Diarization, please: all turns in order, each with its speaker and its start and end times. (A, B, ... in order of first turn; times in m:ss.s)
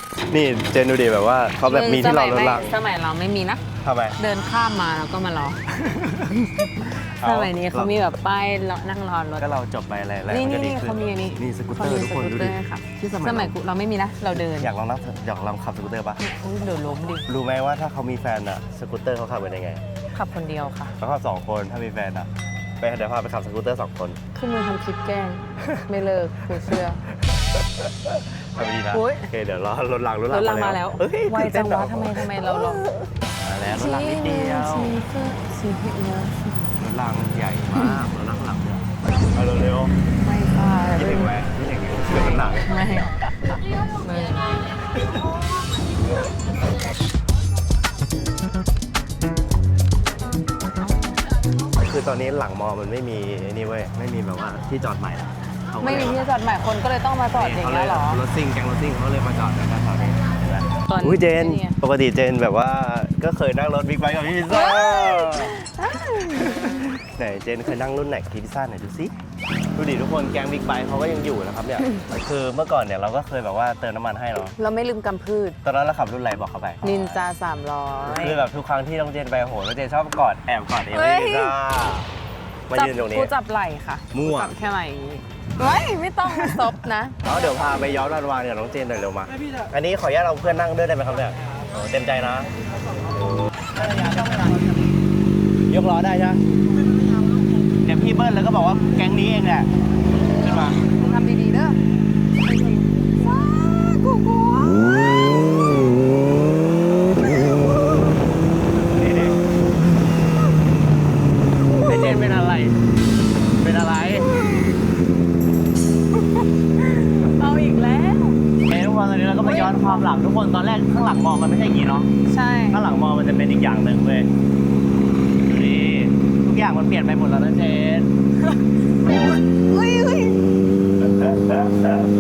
0:00.3-0:02.8 A
0:01.7-0:03.6 B
0:03.8-0:04.2 A
0:04.2-0:05.6 B
0:05.8-0:06.2 A
0:06.3-0:09.5 B
0:07.2-0:07.9 A
0:09.4-0:13.6 A
0:10.3-0:14.7 B
0:14.3-0:16.2 A
0:16.2-0:17.3 B
0:17.3-0:19.8 A
0:20.1-0:21.0 B
0:21.0-0:22.3 A
0:22.8-0:24.2 A
0:24.4-0:27.0 B
0:27.8-0:32.8 A
0:28.9-0:29.3 B
0:30.3-0:32.9 B
0:33.4-0:35.0 A
0:33.7-0:36.7 B
0:36.8-0:40.0 A
0:37.7-0:38.0 B
0:40.2-0:41.3 B
0:40.9-0:42.8 A
0:42.4-0:44.7 B
0:51.8-0:56.3 A
0:55.8-0:58.2 B
0:57.3-1:05.6 A
1:00.9-1:01.8 B
1:04.5-1:06.7 B
1:06.2-1:09.1 A
1:09.8-1:14.6 A
1:14.6-1:15.6 B
1:15.6-1:17.3 A
1:16.8-1:18.4 B
1:18.0-1:22.1 A
1:20.9-1:21.6 B
1:22.7-1:23.3 A
1:22.7-1:27.2 B
1:24.1-1:24.5 A
1:26.3-1:26.6 A
1:27.2-1:32.5 A
1:33.4-1:34.8 A
1:35.7-1:36.4 A
1:37.8-1:39.7 A
1:40.4-1:41.0 A
1:40.7-1:41.8 B
1:42.4-1:45.3 B
1:48.8-1:49.4 A
1:51.7-1:52.8 A
1:51.7-1:52.2 B
1:53.5-1:54.3 A
1:56.7-1:58.4 B
1:58.6-2:02.1 A
1:59.4-2:00.1 B
2:02.3-2:02.8 B
2:02.7-2:04.3 A
2:05.4-2:08.1 A
2:09.1-2:10.5 B